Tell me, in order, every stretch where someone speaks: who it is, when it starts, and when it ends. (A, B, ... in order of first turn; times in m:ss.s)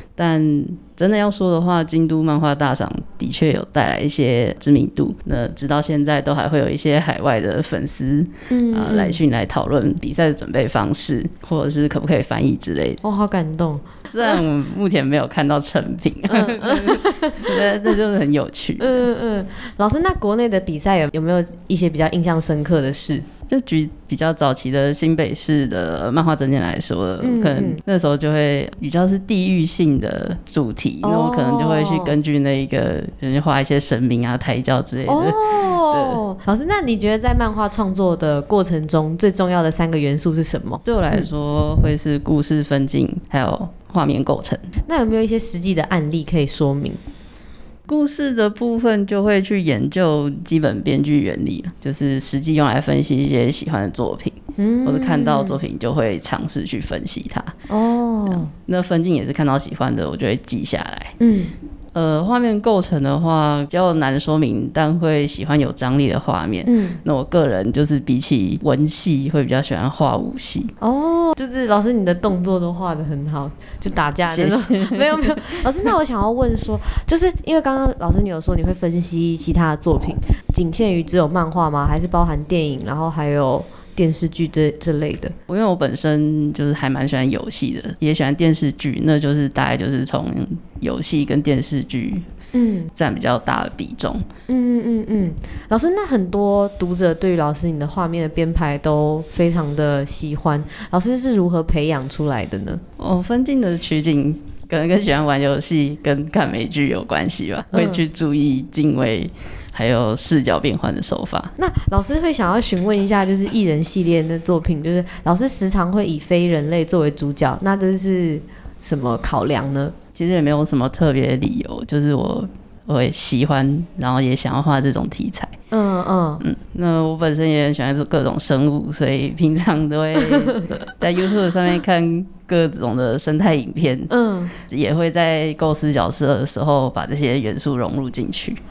0:00.2-0:13.0 A
0:08.5-0:09.2 B
0:13.0-0:14.4 B
0:14.1-0:19.0 A
0:16.3-0:18.0 B
0:18.8-0:23.2 B
0:23.5-0:36.2 A
0:27.2-0:27.8 B
0:31.0-0:32.1 B
0:35.0-0:41.2 B
0:40.8-0:44.6 A
0:44.9-0:47.0 B
0:47.9-0:57.5 A
0:54.6-0:55.6 B
0:57.7-0:58.5 B
0:58.3-1:01.2 A
1:01.2-1:01.5 B
1:01.9-1:10.7 A
1:06.6-1:07.0 B
1:10.8-1:25.3 B
1:14.3-1:15.6 A
1:25.5-1:32.2 A
1:32.5-1:32.9 B
1:32.9-1:34.2 A
1:34.5-1:42.8 B
1:43.0-1:51.5 A
1:47.7-1:48.0 B
1:51.6-2:00.0 B
2:00.1-2:05.5 A
2:05.7-2:06.4 B
2:06.4-2:18.6 A
2:10.2-2:10.7 B
2:14.1-2:14.5 B